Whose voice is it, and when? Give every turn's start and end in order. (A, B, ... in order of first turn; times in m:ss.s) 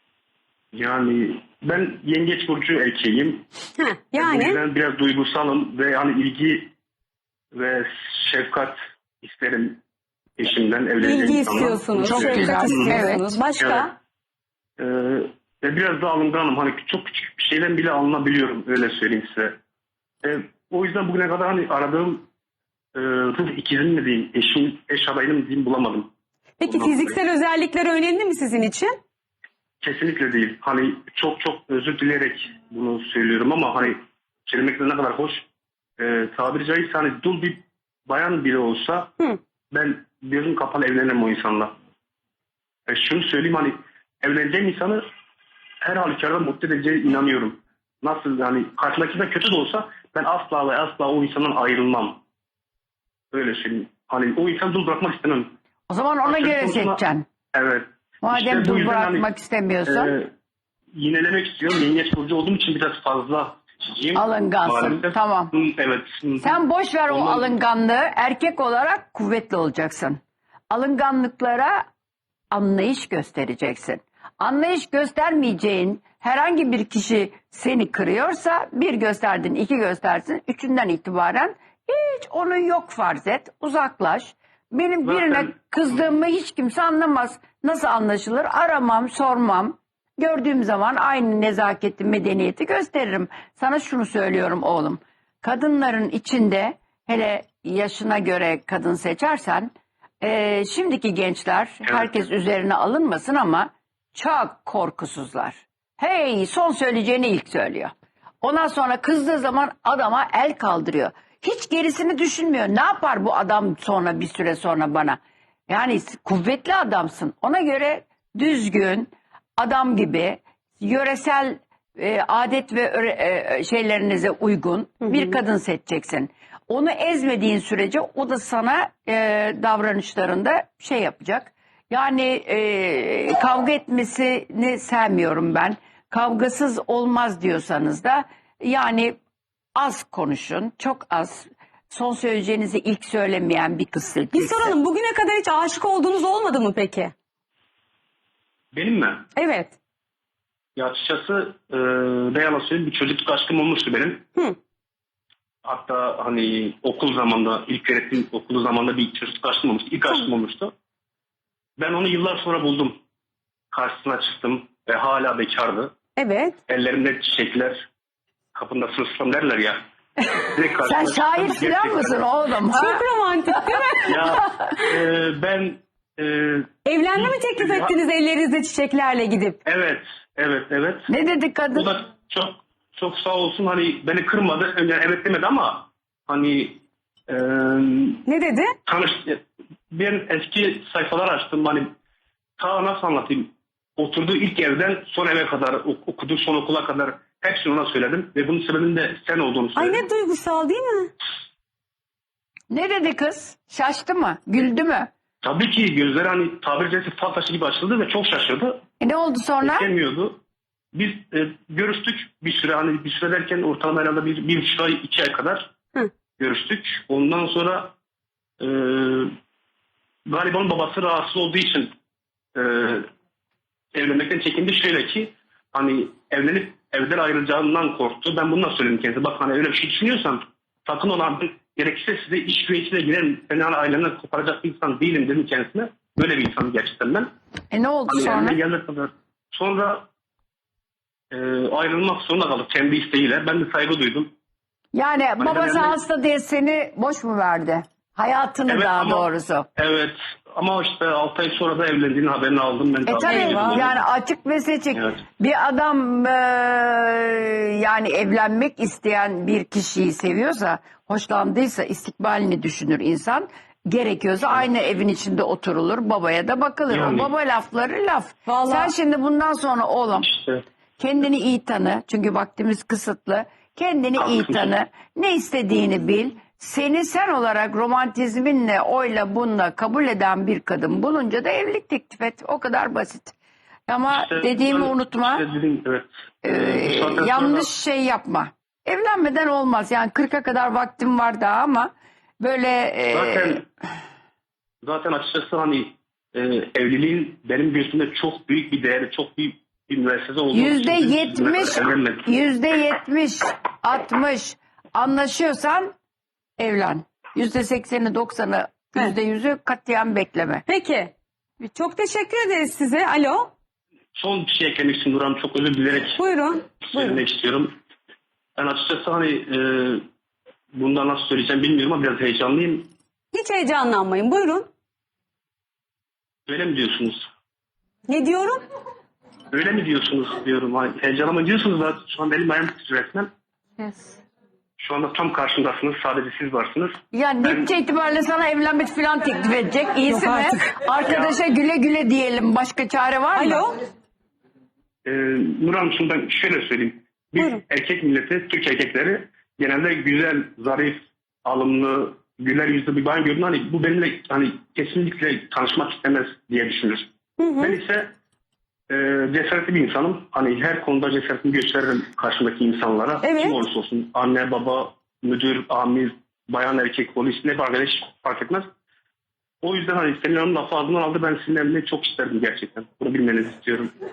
0:00.7-0:03.5 A
0:03.8-0:04.6 B
0:04.2-0:06.7 A
0:07.5-0:09.8 A
0:10.4-0:13.0 A
0:11.0-0:13.9 B
0:12.0-0:13.4 C
0:13.6-0:13.9 A
0:14.8-0:19.6 A
0:20.2-0:22.2 A
0:23.0-0:26.1 A
0:26.6-0:29.0 B
0:26.6-0:27.2 A
0:29.8-0:35.5 A
0:36.0-0:39.2 A
0:39.7-0:41.7 A
0:42.9-0:45.0 A
0:45.8-0:52.2 A
0:53.3-0:55.6 A
0:55.9-0:57.3 C
0:56.2-0:59.3 A
0:58.2-1:00.1 C
0:59.9-1:00.3 A
1:00.9-1:07.6 A
1:04.2-1:05.5 C
1:06.4-1:11.8 C
1:12.5-2:19.2 C
1:25.0-1:25.5 A
2:05.1-2:05.4 B
2:19.8-2:24.7 C
2:24.3-2:27.1 B
2:28.7-2:29.3 A
2:29.4-2:29.8 B
2:30.8-2:34.2 A
2:35.6-2:40.7 A
2:41.8-2:43.0 A
2:43.7-2:45.9 A
2:46.2-2:46.6 B
2:46.7-2:47.9 A
2:48.5-2:49.8 A
2:50.3-2:52.2 A
2:50.8-2:54.6 C
2:52.7-2:54.3 B
2:54.0-2:58.0 A
2:56.9-2:59.6 B
2:59.6-3:01.1 A
3:01.1-3:01.9 C
3:01.7-3:08.2 A
3:08.3-3:08.7 B
3:08.9-3:11.9 A
3:12.6-3:20.0 A
3:19.8-3:21.1 B
3:22.7-3:25.1 C
3:25.4-3:28.8 A
3:29.0-3:29.9 C
3:29.6-3:30.4 A
3:30.9-3:35.7 A
3:36.4-3:38.0 A
3:38.6-3:39.3 A
3:40.3-3:41.9 A
3:42.6-3:43.1 A
3:43.9-3:57.3 A
3:57.7-3:58.6 C
3:58.1-4:00.1 A
4:01.3-4:04.3 A
4:04.9-4:09.7 C
4:05.4-4:06.0 A
4:08.7-4:14.0 A
4:13.1-4:30.3 C
4:13.2-4:13.8 B
4:26.9-4:27.3 A
4:28.5-4:28.9 B
4:30.2-4:30.6 A
4:31.0-4:43.3 C
4:34.2-4:34.7 A
4:43.9-4:45.4 C
4:44.1-4:47.7 A
4:46.4-4:53.6 C
4:53.1-4:53.6 A
4:54.8-5:02.3 A
5:00.5-5:05.9 C
5:06.6-5:10.6 C
5:10.7-5:13.5 B
5:14.2-5:16.2 A
5:16.2-5:17.2 B
5:16.8-5:17.7 A
5:18.6-5:20.0 A
5:20.7-5:22.9 A
5:23.3-5:24.7 B
5:26.5-5:27.3 A
5:28.1-5:28.6 B
5:29.5-5:33.3 A
5:34.8-5:37.6 A
5:37.1-5:43.7 C
5:40.1-5:40.8 B
5:41.0-5:41.4 A
5:43.4-5:43.8 B
5:45.0-5:57.1 A
5:57.4-5:57.8 B
5:57.6-5:58.1 A
5:58.9-6:08.7 A
6:03.2-6:03.6 B
6:09.6-6:13.9 A